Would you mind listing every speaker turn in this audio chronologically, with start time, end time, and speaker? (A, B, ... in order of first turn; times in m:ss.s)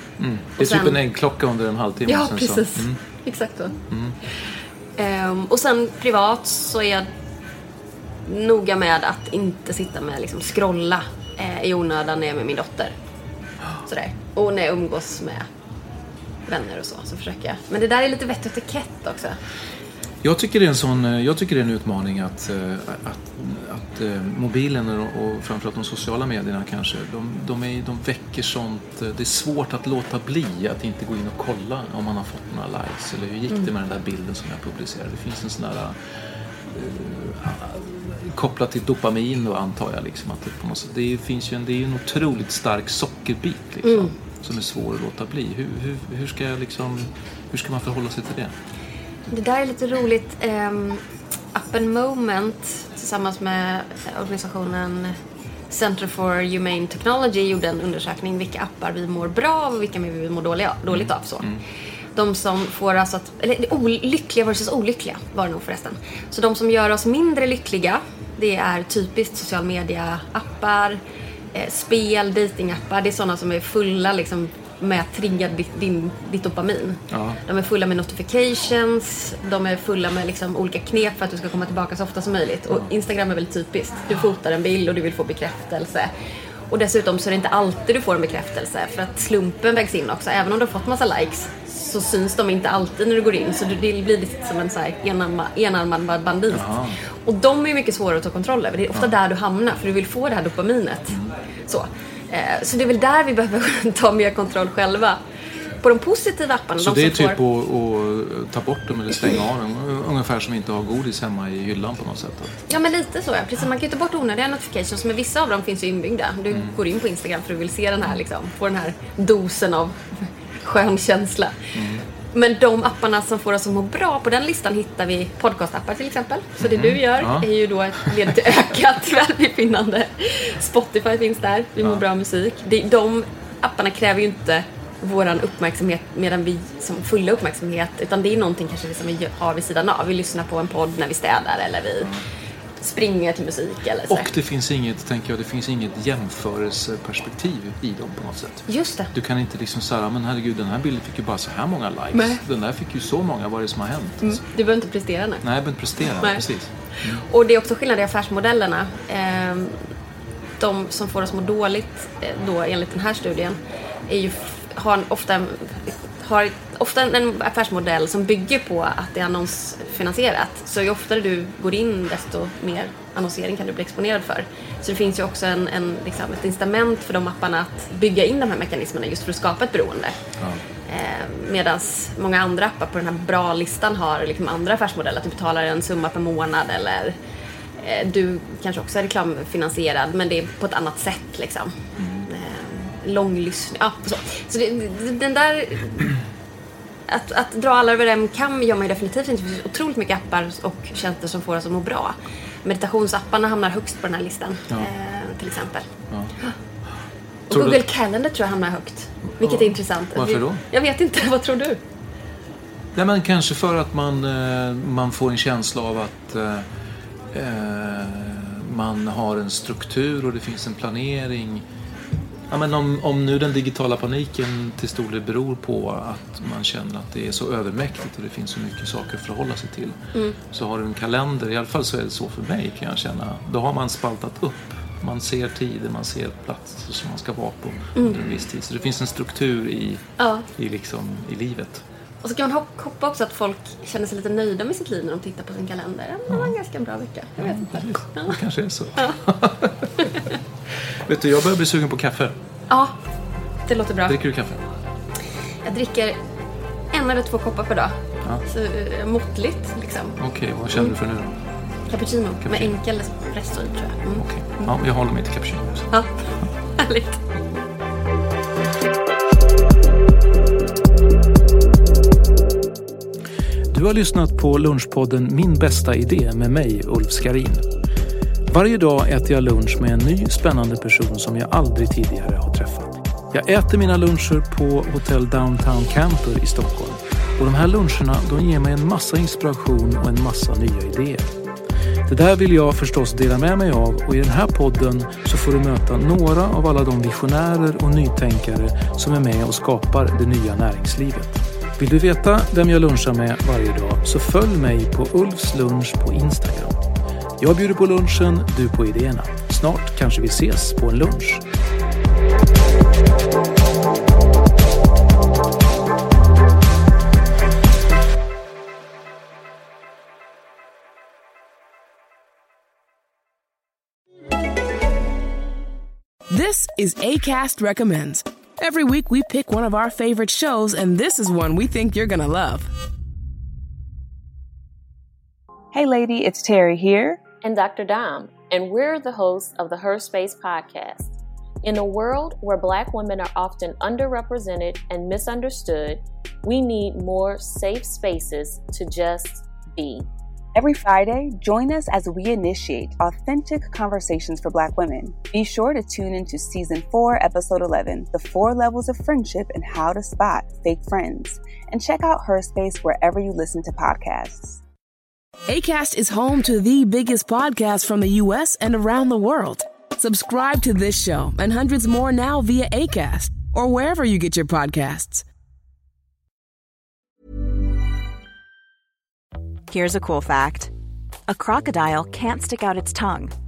0:00.2-0:03.0 A
0:00.6-0:01.0 B
0:02.1-0:03.8 B
0:03.9-0:04.2 A
0:05.0-0:07.1 B
0:08.3-0:13.0 B
0:13.9-0:15.5 B
0:16.5-0:19.4 B
0:20.2-0:36.0 A
0:36.7-0:48.5 A
0:43.8-0:44.1 B
0:49.3-0:51.0 B
0:51.5-0:55.2 B
0:55.7-1:01.5 B
1:00.9-1:01.6 A
1:02.2-1:11.0 B
1:11.5-1:26.1 B
1:17.1-1:17.4 A
1:26.7-1:41.2 B
1:36.5-1:37.0 A
1:41.7-1:45.2 B
1:45.8-1:47.4 B
1:46.8-1:52.6 A
1:52.7-2:01.7 B
2:01.8-2:02.0 A
2:02.3-2:22.1 B
2:06.6-2:08.2 A
2:22.8-2:24.3 B
2:24.1-2:34.4 A
2:28.7-2:29.1 B
2:32.1-2:32.4 B
2:34.2-2:35.4 B
2:35.4-2:37.2 A
2:37.2-2:39.8 B
2:40.6-3:00.2 B
3:00.9-3:07.2 B
3:07.8-3:11.8 B
3:12.0-3:12.3 A
3:12.3-3:16.2 B
3:17.1-3:25.9 B
3:27.5-3:31.8 B
3:27.5-3:27.8 A
3:29.3-3:30.6 A
3:33.0-3:36.7 A
3:37.3-3:41.6 A
3:42.5-3:50.0 A
3:50.5-4:00.0 A
3:58.0-3:58.2 B
4:00.2-4:00.5 B
4:00.6-4:01.8 A
4:02.2-4:08.4 B
4:07.4-4:10.3 A
4:10.0-4:10.3 B
4:11.0-4:12.4 A
4:13.7-4:14.2 B
4:14.1-4:14.6 A
4:15.6-4:16.2 B
4:16.9-4:17.9 B
4:18.4-4:20.2 B
4:20.2-4:21.4 A
4:21.9-4:24.7 B
4:22.4-4:22.7 A
4:24.2-4:25.9 A
4:26.8-4:27.2 B
4:33.7-4:37.6 A
4:38.5-4:51.3 A
4:52.1-5:06.8 A
5:07.4-5:11.4 A
5:26.3-5:32.7 C
5:35.7-5:37.2 D
5:37.4-5:50.1 E
5:50.6-6:04.6 D
6:05.5-6:15.2 C
6:19.7-6:20.7 F
6:21.3-6:23.3 F